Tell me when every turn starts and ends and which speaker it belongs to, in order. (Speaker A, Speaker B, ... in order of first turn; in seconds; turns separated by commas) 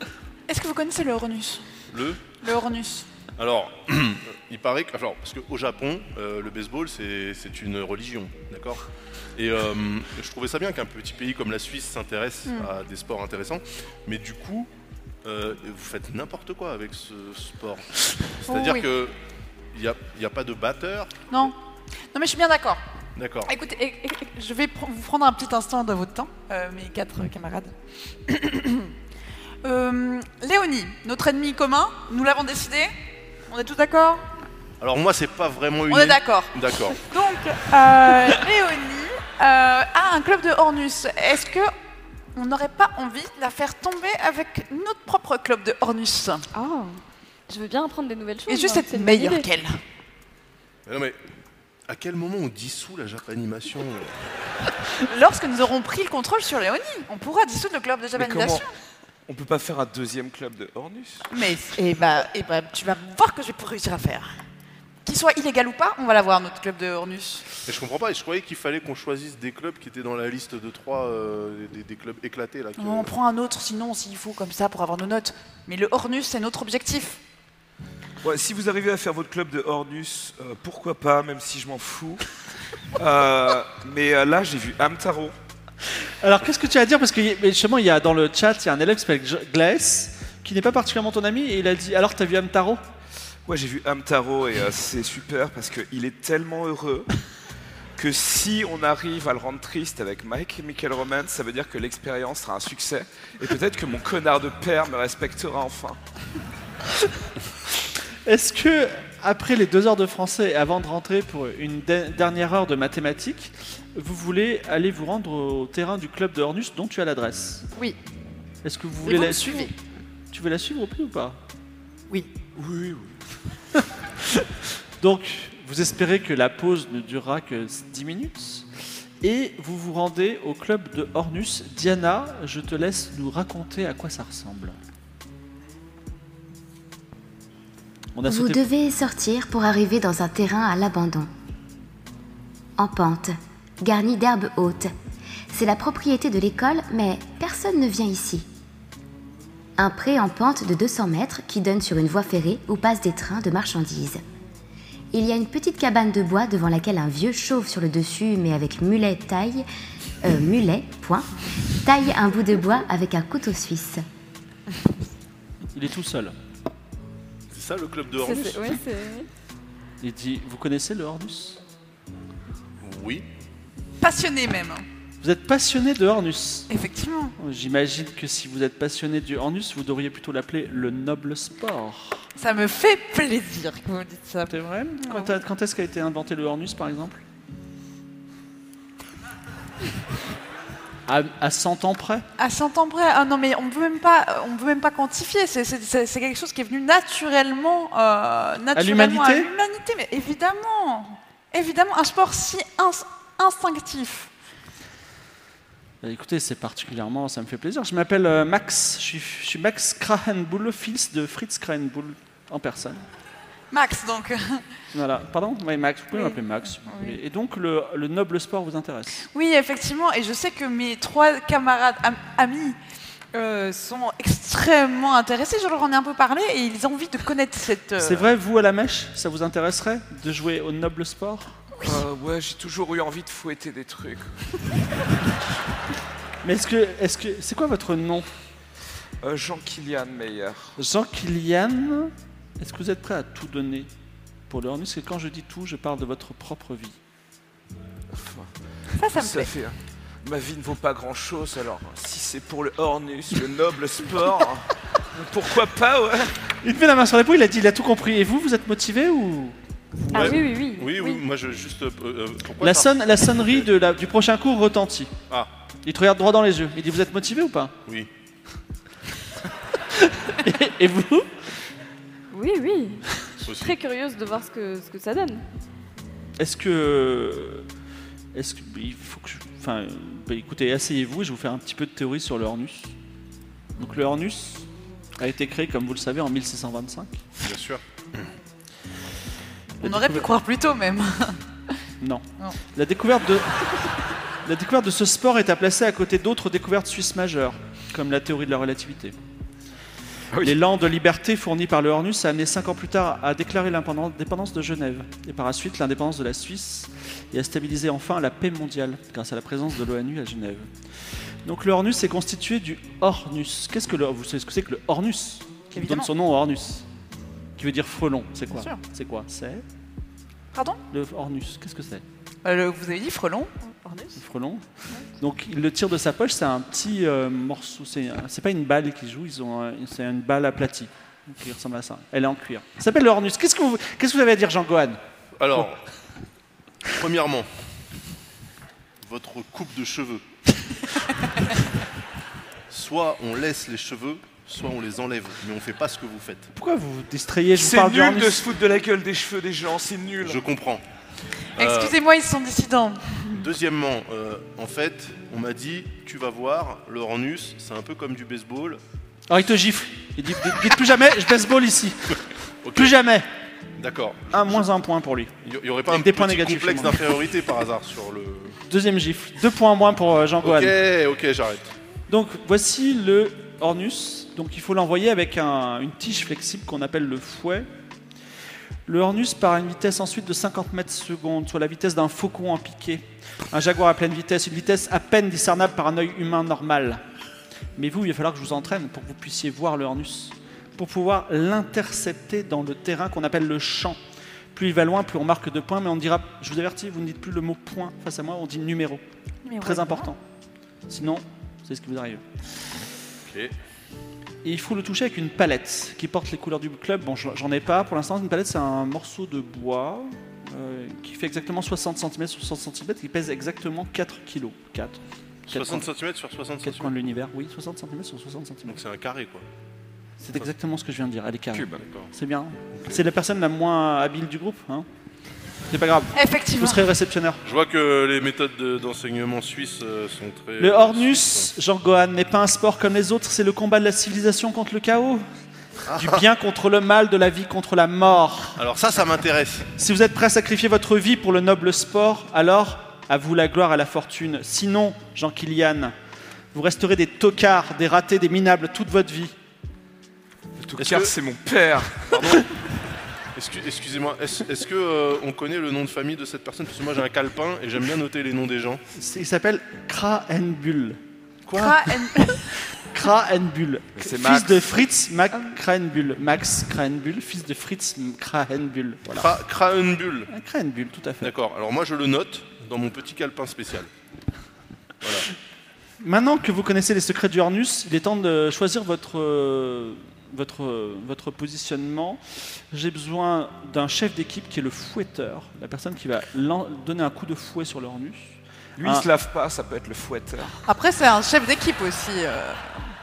Speaker A: 0.5-1.6, Speaker B: 1.9-2.2, Speaker A: 2.4-3.1, Speaker B: 3.4-8.8, Speaker B: 9.3-14.7, Speaker B: 15.2-19.1, Speaker A: 18.5-18.9, Speaker B: 19.7-21.5, Speaker A: 21.3-21.6, Speaker A: 22.1-22.8, Speaker B: 23.1-23.5, Speaker A: 23.5-27.7, Speaker A: 28.2-28.9, Speaker A: 29.6-32.9, Speaker A: 33.5-34.3, Speaker B: 34.8-37.1, Speaker A: 35.9-41.7, Speaker A: 42.3-46.5, Speaker C: 46.5-49.5, Speaker A: 48.5-49.8, Speaker B: 50.9-51.2, Speaker B: 51.9-54.2, Speaker A: 55.0-58.7, Speaker D: 58.1-58.6, Speaker D: 59.3-61.2, Speaker A: 61.3-64.4, Speaker A: 65.0-67.4, Speaker B: 67.7-73.1, Speaker A: 72.8-77.2, Speaker D: 78.2-82.2, Speaker D: 83.0-85.3, Speaker E: 86.2-92.8, Speaker D: 93.4-97.1, Speaker D: 98.0-106.0, Speaker E: 108.2-117.7, Speaker E: 118.6-119.7, Speaker A: 119.0-119.7, Speaker E: 120.3-121.4, Speaker D: 122.5-123.2, Speaker E: 124.3-128.7, Speaker E: 129.2-134.8, Speaker E: 138.1-138.6, Speaker F: 138.2-141.3, Speaker F: 142.8-144.9, Speaker F: 145.5-148.5, Speaker F: 149.8-154.2, Speaker F: 155.1-159.6, Speaker F: 160.2-161.3, Speaker F: 161.8-164.0, Speaker E: 165.7-166.3, Speaker B: 167.5-168.8, Speaker C: 168.2-169.3, Speaker E: 170.0-171.6, Speaker B: 172.8-173.2, Speaker A: 174.0-174.8, Speaker E: 175.2-176.7, Speaker A: 176.7-177.3, Speaker E: 177.4-182.3, Speaker A: 182.4-185.3, Speaker E: 184.4-187.2, Speaker E: 191.1-192.2, Speaker A: 192.4-204.3, Speaker E: 198.7-199.5, Speaker E: 206.0-213.1, Speaker A: 213.7-214.6, Speaker E: 214.9-219.2, Speaker A: 216.1-217.2, Speaker A: 219.3-222.8, Speaker A: 223.3-228.3, Speaker E: 228.0-231.6, Speaker D: 231.8-234.4, Speaker E: 236.4-238.3, Speaker D: 239.2-240.7, Speaker E: 240.8-243.9, Speaker E: 244.5-247.0, Speaker D: 248.1-248.5, Speaker A: 249.0-249.5, Speaker D: 249.2-256.3, Speaker E: 256.6-260.4, Speaker B: 260.1-263.6, Speaker C: 260.1-261.2, Speaker E: 262.6-265.1, Speaker E: 265.8-267.8, Speaker E: 269.9-271.3, Speaker C: 272.3-275.4, Speaker B: 273.4-273.7, Speaker E: 276.4-277.7, Speaker E: 278.3-282.9, Speaker E: 283.8-284.7, Speaker E: 285.2-287.2, Speaker B: 287.4-288.3, Speaker A: 289.8-291.4, Speaker E: 289.8-290.3, Speaker E: 292.0-293.8, Speaker E: 294.4-299.1, Speaker D: 300.3-300.6, Speaker E: 300.4-310.7, Speaker E: 311.4-316.8, Speaker A: 315.7-316.1, Speaker E: 317.6-319.6, Speaker A: 318.5-318.8, Speaker A: 320.5-320.8, Speaker E: 320.9-322.0, Speaker A: 322.4-324.1, Speaker E: 324.1-324.6, Speaker E: 325.2-335.0, Speaker B: 335.4-335.8, Speaker B: 336.9-337.5, Speaker B: 339.0-340.2, Speaker B: 342.7-346.5, Speaker E: 346.5-348.4, Speaker D: 347.5-350.4, Speaker B: 350.2-350.8, Speaker B: 351.6-351.9, Speaker A: 351.6-353.3, Speaker B: 353.3-358.8, Speaker E: 359.3-362.2, Speaker B: 362.6-362.9, Speaker E: 362.7-363.2, Speaker B: 363.8-364.3, Speaker E: 364.3-365.3, Speaker B: 365.4-368.6, Speaker E: 365.9-367.0, Speaker E: 368.7-370.7, Speaker B: 370.4-371.7, Speaker E: 372.1-377.7, Speaker E: 378.9-387.0, Speaker E: 387.8-394.0, Speaker E: 394.5-399.0, Speaker A: 399.4-400.1, Speaker E: 399.6-400.2, Speaker E: 400.9-402.2, Speaker B: 403.2-403.5, Speaker E: 404.4-415.9, Speaker B: 415.5-416.9, Speaker E: 416.6-418.8, Speaker B: 418.7-419.4, Speaker E: 420.2-424.9, Speaker D: 421.5-421.8, Speaker B: 421.8-422.1, Speaker B: 422.7-423.0, Speaker E: 425.7-427.4, Speaker A: 426.1-426.9, Speaker B: 427.4-431.5, Speaker E: 430.6-435.2, Speaker B: 435.9-436.2, Speaker E: 435.9-438.6, Speaker B: 438.6-439.7, Speaker E: 439.8-445.9, Speaker E: 446.5-449.3, Speaker D: 450.6-452.2, Speaker B: 450.8-451.1, Speaker B: 452.1-452.4, Speaker B: 453.3-458.8, Speaker E: 458.9-461.0, Speaker B: 461.4-461.9, Speaker A: 461.5-462.5, Speaker E: 462.8-469.3, Speaker D: 463.9-464.7, Speaker B: 469.1-470.3, Speaker E: 470.3-471.3, Speaker B: 471.2-473.9, Speaker B: 475.0-475.3, Speaker E: 476.0-489.1, Speaker D: 488.8-490.6, Speaker A: 490.6-492.9